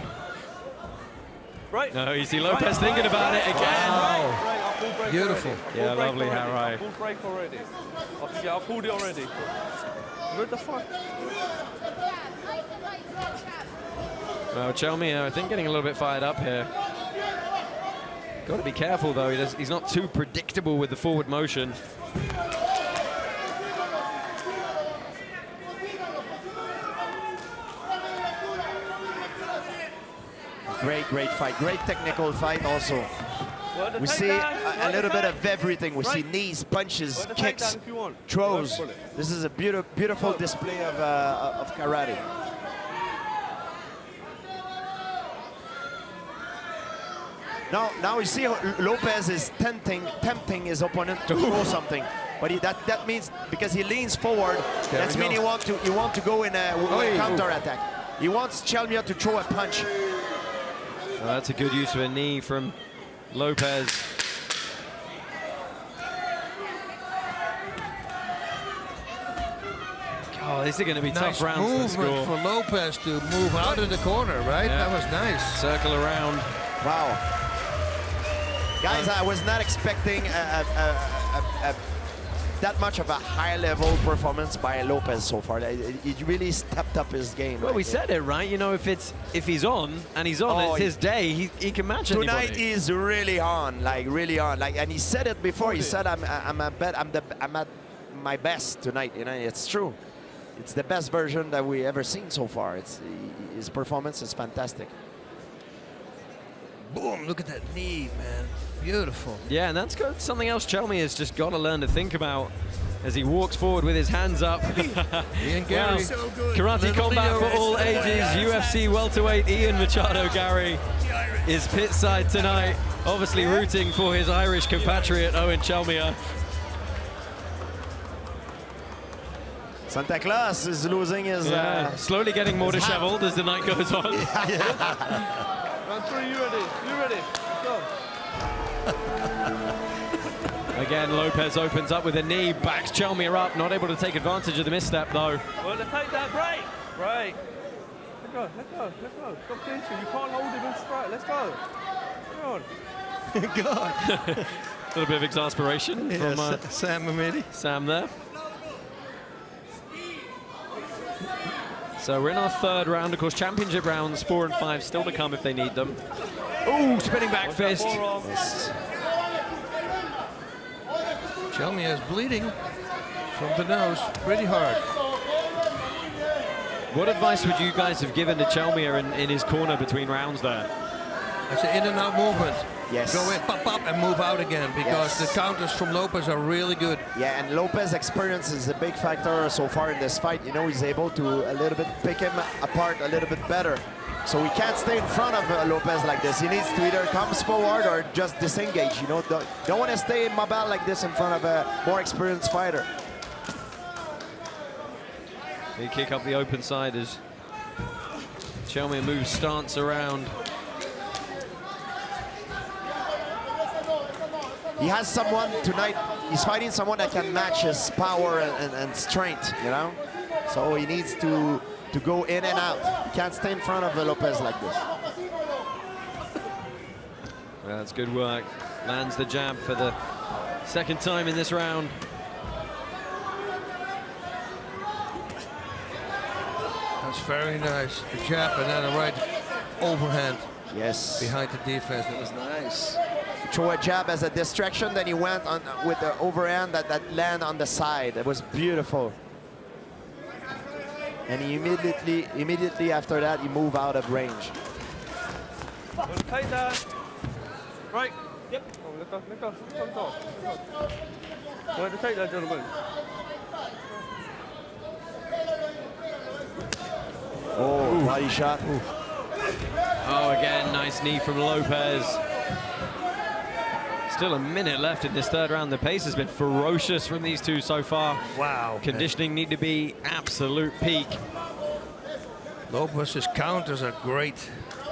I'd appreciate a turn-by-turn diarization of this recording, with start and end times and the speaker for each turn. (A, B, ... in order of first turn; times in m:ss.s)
0:01.7-0:09.3 A
0:01.9-0:04.1 B
0:03.5-0:04.5 C
0:05.0-0:05.6 C
0:05.7-0:06.8 B
0:10.3-0:11.3 A
0:14.5-0:16.7 B
0:18.5-0:21.8 B
0:30.7-0:33.1 D
0:33.7-0:35.4 A
0:34.0-0:42.3 D
0:36.0-0:36.3 A
0:37.1-0:39.0 A
0:47.7-0:59.9 D
0:51.3-0:51.8 B
0:54.9-0:55.4 C
0:56.9-0:57.6 C
1:01.2-1:02.8 B
1:03.3-1:04.0 B
1:10.3-1:12.3 B
1:11.1-1:15.6 C
1:14.6-1:16.5 B
1:16.8-1:17.2 D
1:18.8-1:21.8 D
1:22.6-1:28.0 D
1:27.6-1:32.6 B
1:30.5-1:30.9 D
1:32.0-1:40.0 D
1:35.6-1:36.0 A
1:40.6-1:44.9 D
1:46.8-1:49.4 C
1:49.4-2:00.8 B
1:55.4-1:58.6 C
2:01.4-2:06.2 B
2:09.9-2:12.0 D
2:11.4-2:14.3 B
2:12.6-2:13.0 D
2:14.1-2:15.5 C
2:14.4-2:15.0 D
2:14.6-2:14.9 A
2:15.8-2:17.9 A
2:18.9-2:19.7 C
2:20.7-2:25.4 B
2:25.6-2:27.4 A
2:28.2-2:31.6 A
2:32.3-2:32.7 A
2:33.3-2:34.5 C
2:34.0-2:36.6 B
2:36.0-2:37.5 C
2:37.5-2:38.1 B
2:42.0-2:46.0 B
2:46.6-2:48.1 B
2:47.4-2:48.3 A
2:48.2-2:48.8 D
2:51.5-2:52.6 C
2:53.3-2:54.9 C
2:56.9-3:00.7 B
3:01.5-3:07.1 C
3:02.9-3:03.4 D
3:04.8-3:05.4 D
3:07.1-3:22.9 D
3:25.8-3:27.2 B
3:28.7-3:30.4 B
3:34.8-3:44.8 D
3:47.6-3:50.0 B
3:50.6-3:52.0 B
3:57.0-4:00.5 C
4:00.7-4:01.3 D
4:01.2-4:03.0 C
4:03.5-4:09.2 D
4:11.3-4:14.6 D
4:16.1-4:16.8 A
4:17.9-4:20.4 A
4:21.8-4:22.7 A
4:27.6-4:28.6 D
4:27.8-4:28.9 B
4:30.0-4:32.2 B
4:34.1-4:38.2 B
4:38.3-4:39.1 C
4:38.8-4:41.2 B
4:42.7-4:44.5 C